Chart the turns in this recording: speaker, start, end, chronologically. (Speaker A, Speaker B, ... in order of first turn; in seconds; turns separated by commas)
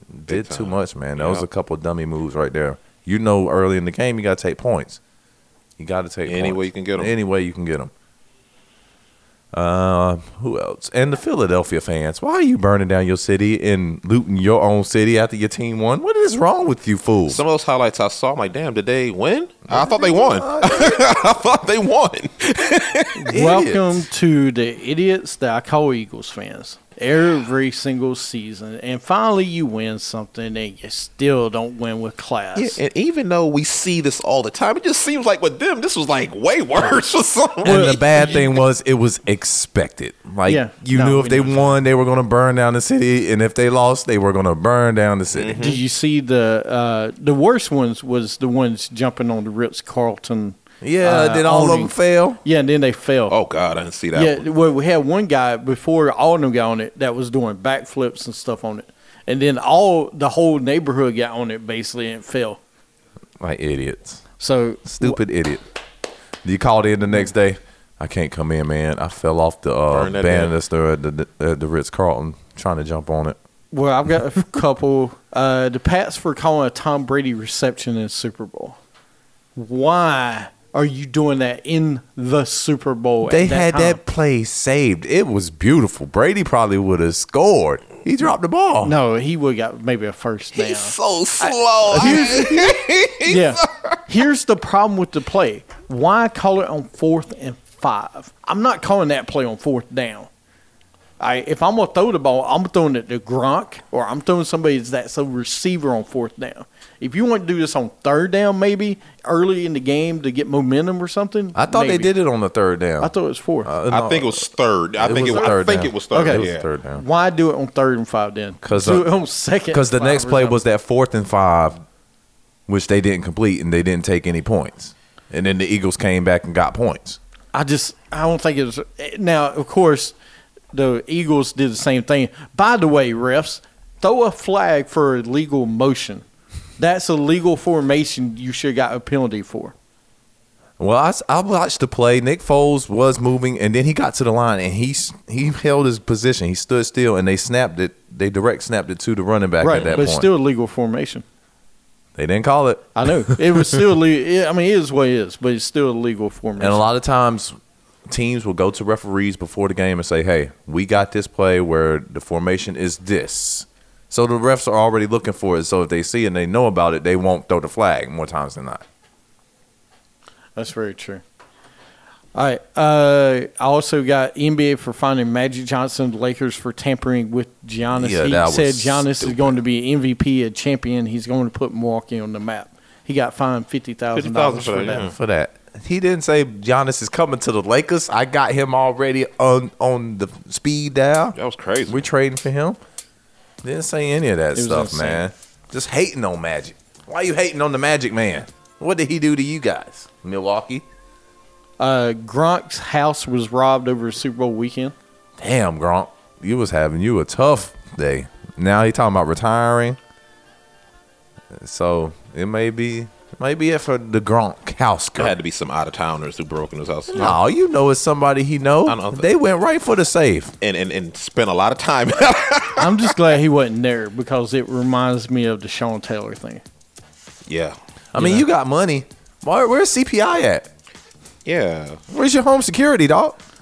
Speaker A: 0.1-5.0, Speaker B: 0.3-1.4, Speaker A: 5.8-7.9, Speaker B: 6.2-7.2, Speaker A: 9.5-17.4, Speaker B: 17.3-23.2, Speaker A: 19.7-21.0, Speaker C: 23.1-32.8, Speaker A: 23.3-24.1, Speaker B: 32.5-38.6, Speaker C: 37.6-38.0, Speaker A: 37.6-45.6, Speaker C: 40.5-41.8, Speaker B: 45.3-45.8, Speaker C: 45.6-53.4, Speaker A: 50.8-52.4, Speaker B: 53.3-54.5, Speaker C: 54.1-62.6, Speaker A: 63.4-64.2, Speaker C: 64.4-65.2, Speaker A: 64.8-65.6, Speaker A: 66.4-73.4, Speaker B: 69.9-70.5, Speaker C: 73.7-78.8, Speaker C: 79.5-84.0, Speaker A: 83.2-89.0, Speaker C: 88.8-100.3, Speaker B: 90.5-94.0, Speaker A: 92.0-92.3, Speaker C: 101.2-112.1, Speaker A: 111.5-113.1, Speaker C: 113.0-113.7, Speaker A: 113.6-114.4, Speaker B: 113.9-116.7, Speaker A: 115.0-117.0, Speaker C: 115.1-115.5, Speaker C: 116.1-120.6, Speaker A: 118.6-119.1, Speaker A: 119.7-121.8, Speaker A: 122.7-127.2, Speaker C: 127.5-130.1, Speaker C: 130.7-136.2, Speaker C: 136.8-139.7, Speaker A: 140.8-150.3, Speaker C: 149.6-151.2, Speaker B: 149.7-150.1, Speaker A: 152.2-153.8, Speaker C: 152.9-156.9, Speaker A: 156.6-157.6, Speaker A: 158.1-168.8, Speaker C: 170.6-171.2, Speaker C: 172.3-185.0, Speaker A: 177.9-179.5, Speaker B: 184.1-185.1, Speaker A: 184.9-191.4, Speaker B: 191.3-192.0, Speaker A: 191.9-192.8, Speaker A: 193.6-200.8, Speaker C: 194.5-195.2, Speaker C: 201.8-204.9, Speaker A: 205.4-210.0, Speaker A: 211.5-215.3, Speaker B: 215.2-217.4, Speaker A: 217.1-220.5, Speaker B: 218.8-219.3, Speaker B: 220.6-223.1, Speaker C: 222.8-226.6, Speaker B: 227.5-227.8, Speaker A: 228.1-230.7, Speaker C: 228.2-228.4, Speaker B: 231.4-232.0, Speaker A: 232.1-233.4